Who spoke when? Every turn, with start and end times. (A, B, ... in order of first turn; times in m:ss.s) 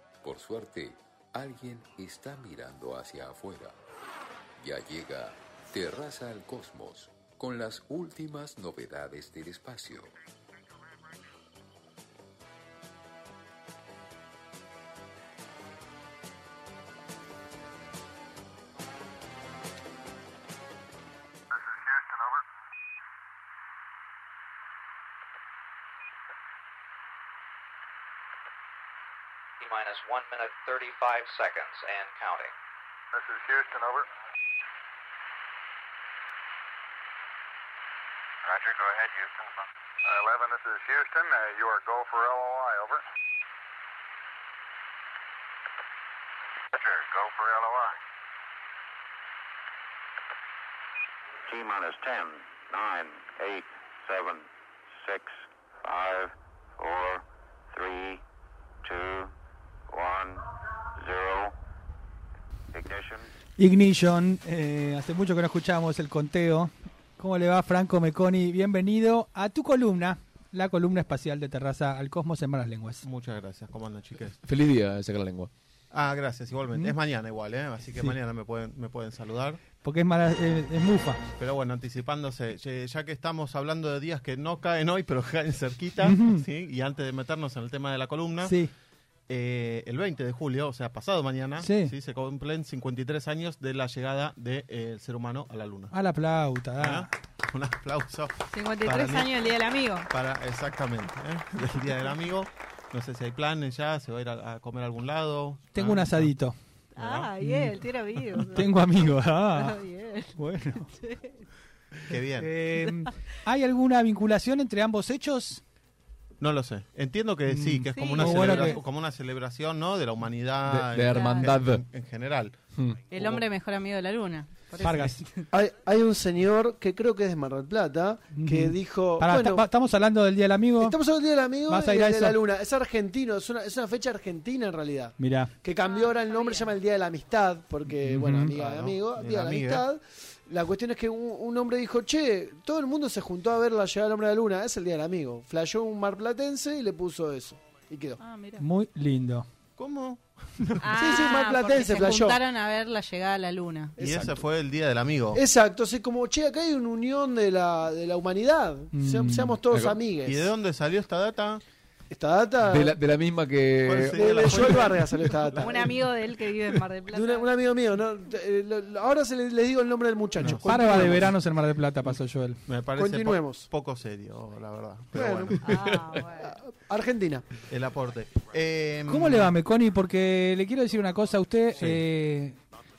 0:00.2-0:03.8 A
0:04.6-0:10.1 A
0:29.6-0:32.5 B
0:40.5-0:43.0 C
0:51.5-0:54.4 D
0:55.0-0:58.2 D
0:58.8-0:59.3 D
0:59.9-1:01.5 D
1:02.7-1:03.3 D
1:03.6-1:13.0 E
1:13.0-1:14.4 F
1:14.4-1:15.5 G
1:15.9-1:19.6 F
1:19.8-1:21.2 E
1:21.4-1:28.6 F
1:26.0-1:26.4 E
1:28.4-1:28.7 E
1:29.3-1:35.9 F
1:31.6-1:31.9 E
1:35.9-1:37.1 E
1:36.8-1:39.5 F
1:38.5-1:40.1 H
1:40.1-1:46.3 F
1:45.7-1:46.6 E
1:46.9-1:48.9 H
1:47.0-1:47.3 F
1:47.4-1:47.8 E
1:48.5-1:49.8 E
1:49.5-1:51.5 H
1:50.3-1:50.9 E
1:52.1-1:52.5 F
1:52.4-1:55.6 E
1:52.8-1:53.1 H
1:56.4-2:02.6 F
1:57.5-1:58.8 E
1:57.9-1:58.8 H
2:00.7-2:01.8 G
2:01.1-2:01.5 H
2:03.1-2:05.4 H
2:03.2-2:03.4 F
2:04.8-2:05.2 E
2:05.5-2:09.6 I
2:08.3-2:11.0 E
2:10.8-2:28.2 I
2:11.7-2:12.3 E
2:15.2-2:15.5 E
2:15.8-2:16.7 H
2:18.0-2:18.6 E
2:18.5-2:19.8 F
2:28.2-2:28.6 H
2:28.6-2:29.4 E
2:29.8-2:31.3 F
2:30.8-2:33.9 H
2:30.9-2:32.4 I
2:34.0-2:34.4 I
2:34.0-2:35.4 F
2:35.3-2:40.5 I
2:38.9-2:39.6 E
2:39.7-2:40.0 G
2:40.2-2:41.6 F
2:42.1-2:43.0 I
2:42.7-2:44.7 G
2:43.8-2:45.8 F
2:43.9-2:46.0 I
2:45.6-2:47.5 H
2:47.1-2:51.3 I
2:50.4-2:51.3 F
2:50.6-2:52.6 E
2:52.6-2:55.6 F
2:53.0-2:53.7 I
2:55.1-2:55.6 I
2:55.6-2:56.6 H
2:55.7-2:56.2 G
2:56.3-2:57.5 I
2:57.7-2:59.5 F
2:59.1-3:02.6 E